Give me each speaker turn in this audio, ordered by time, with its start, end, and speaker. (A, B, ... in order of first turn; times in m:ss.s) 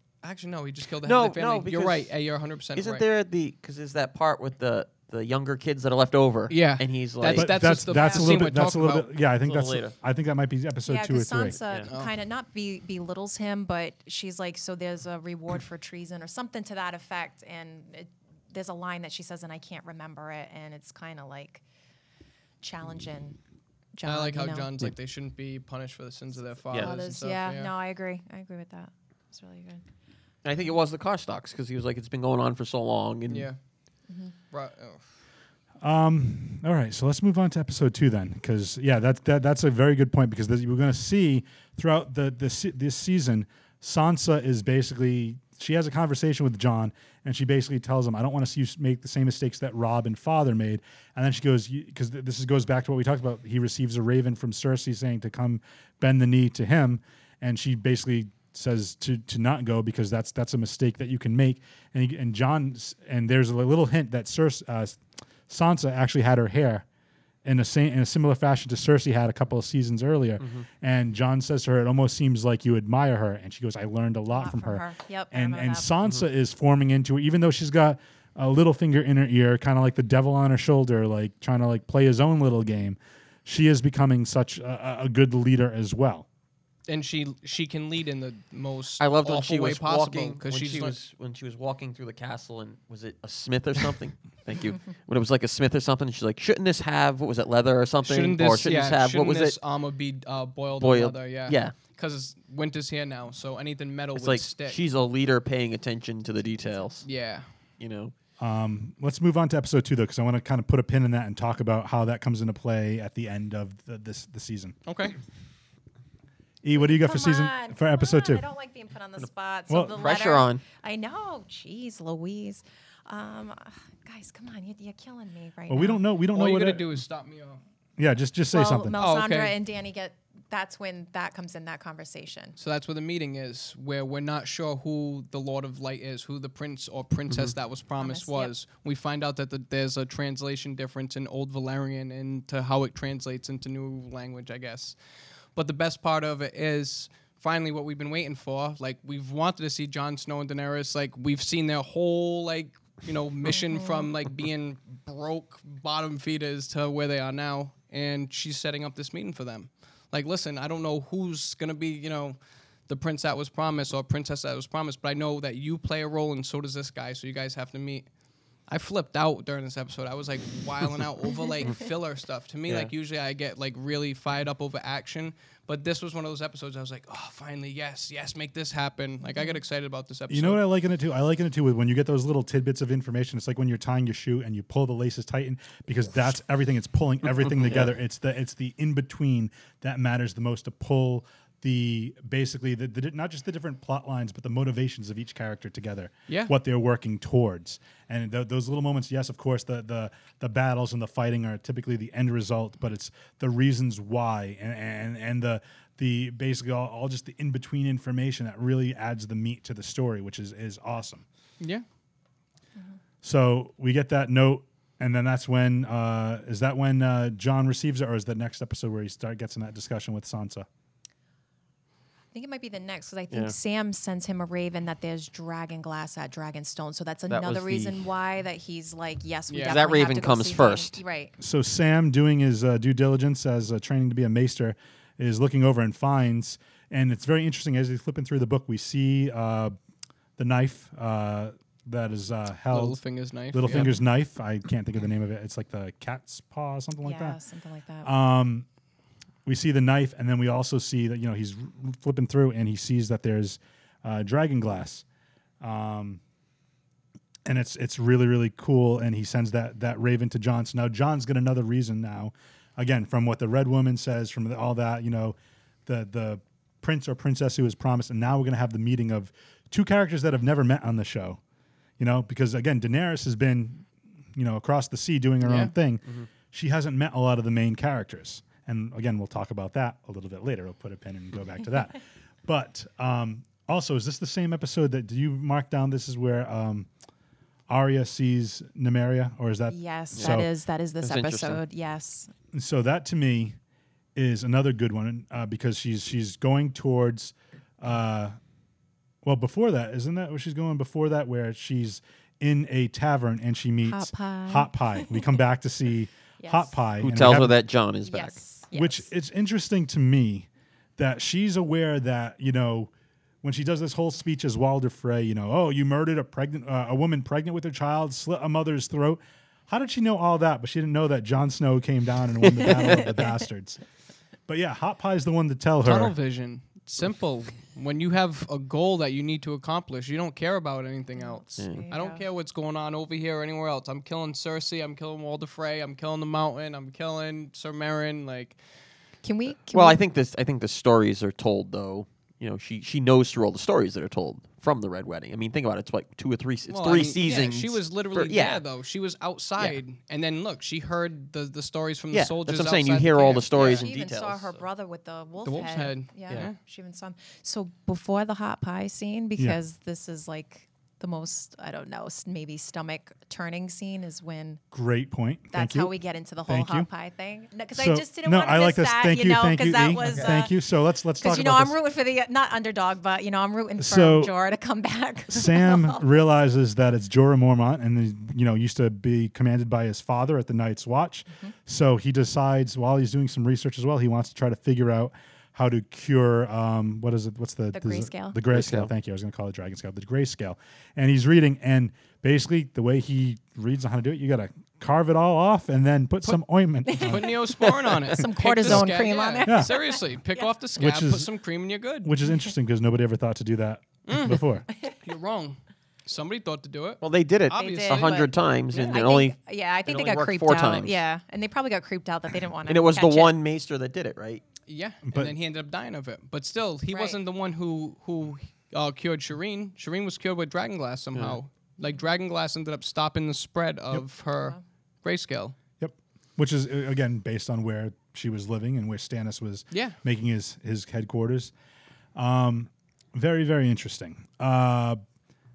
0:00.2-0:03.0 A
0:01.0-0:02.1 B
0:02.8-0:07.6 B
0:06.5-0:09.1 A
0:07.3-0:11.6 C
0:07.9-0:08.4 D
0:09.4-0:09.9 B
0:10.9-0:21.6 D
0:11.6-0:11.9 B
0:22.6-0:23.4 D
0:23.9-0:24.7 D
0:24.0-0:27.7 A
0:26.8-0:29.8 D
0:30.4-0:33.5 B
0:33.3-0:33.6 A
0:34.5-0:35.0 A
0:35.8-1:06.8 C
1:07.4-1:26.3 C
1:14.3-1:15.9 D
1:26.9-1:31.0 A
1:29.0-1:39.6 B
1:38.0-1:44.8 A
1:40.8-1:41.8 B
1:44.2-1:47.1 B
1:46.4-1:47.0 D
1:47.0-1:47.5 A
1:47.8-1:48.1 B
1:48.4-1:54.8 C
1:54.9-1:55.2 A
1:56.6-1:58.4 C
1:56.8-2:06.0 D
1:59.7-2:00.1 C
2:00.0-2:00.6 B
2:05.7-2:07.0 C
2:06.3-2:07.6 A
2:08.0-2:09.0 C
2:08.5-2:12.6 D
2:09.0-2:09.6 A
2:12.6-2:25.0 A
2:18.0-2:18.5 D
2:25.6-2:42.4 A
2:33.5-2:34.1 D
2:42.9-2:48.1 A
2:48.7-3:00.6 A
2:59.2-2:59.6 D
3:00.3-3:31.2 C
3:31.6-3:31.8 A
3:33.2-3:40.7 C
3:42.3-3:51.3 D
3:47.3-3:48.0 B
3:49.5-3:49.8 A
3:49.6-3:51.0 B
3:51.4-3:59.8 C
4:00.4-4:03.0 C
4:02.7-4:04.0 A
4:03.5-4:07.4 C
4:07.0-4:08.1 D
4:08.0-4:08.7 C
4:09.5-4:15.0 C
4:15.6-4:16.2 C
4:17.4-4:31.4 C
4:32.0-4:46.9 C
4:35.4-4:35.7 A
4:47.7-4:50.5 C
4:49.7-4:52.3 D
4:50.2-4:50.4 B
4:51.0-4:51.6 B
4:52.5-4:53.6 C
4:54.2-4:58.4 C
4:59.2-5:07.6 C
5:03.8-5:05.3 D
5:06.4-5:06.7 D
5:07.0-5:08.4 B
5:08.0-5:09.1 D
5:08.7-5:12.9 C
5:13.4-5:23.8 C
5:22.7-5:23.4 D
5:24.5-5:26.2 C
5:25.8-5:38.6 A
5:31.2-5:32.2 D
5:31.6-5:31.9 B
5:39.2-5:40.0 D
5:39.7-5:48.6 B
5:46.7-5:53.9 A
5:52.1-5:54.6 B
5:53.5-6:04.6 D
5:55.4-5:56.6 A
6:04.7-6:05.9 C
6:05.5-6:10.5 D
6:06.5-6:06.9 C
6:07.8-6:11.8 C
6:11.2-6:16.0 D
6:13.8-6:14.3 C
6:15.3-6:37.4 C
6:27.7-6:28.4 D
6:28.5-6:28.9 B
6:36.9-6:40.5 D
6:37.0-6:42.1 A
6:39.4-6:39.7 C
6:40.8-6:41.3 C
6:42.0-6:44.7 C
6:44.1-6:48.1 A
6:47.0-6:51.0 B
6:47.5-6:53.4 D
6:52.7-6:54.4 B
6:54.7-7:05.6 A
6:55.1-6:55.4 C
6:56.9-6:57.2 D
7:05.8-7:11.5 C
7:09.7-7:10.0 A
7:12.2-7:15.0 C